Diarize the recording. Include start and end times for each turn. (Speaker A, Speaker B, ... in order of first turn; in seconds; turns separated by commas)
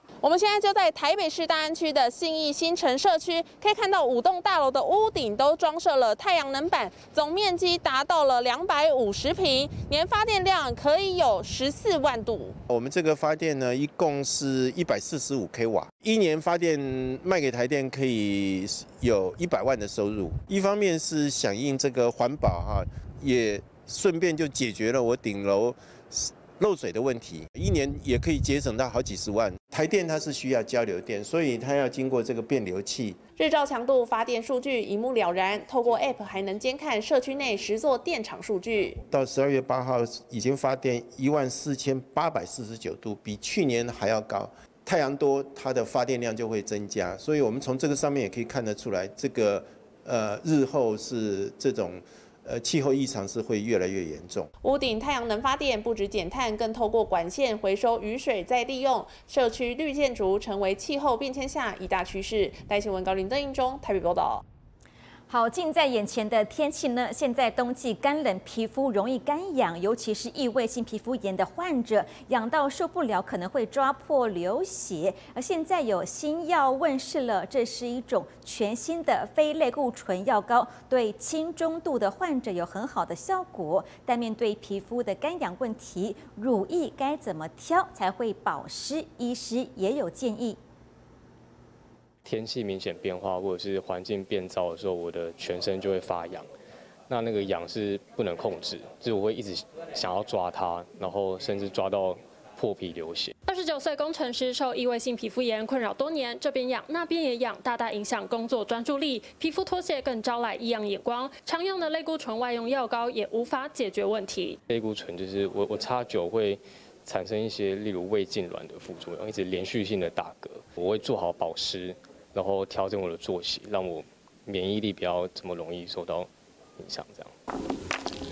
Speaker A: 0.2-12.6, Speaker B: 12.7-33.2, Speaker A: 33.4-39.0, Speaker B: 39.1-54.5, Speaker A: 54.6-64.4, Speaker C: 65.3-90.6, Speaker D: 92.2-96.5, Speaker D: 97.1-103.3, Speaker E: 103.5-114.6, Speaker D: 114.7-127.3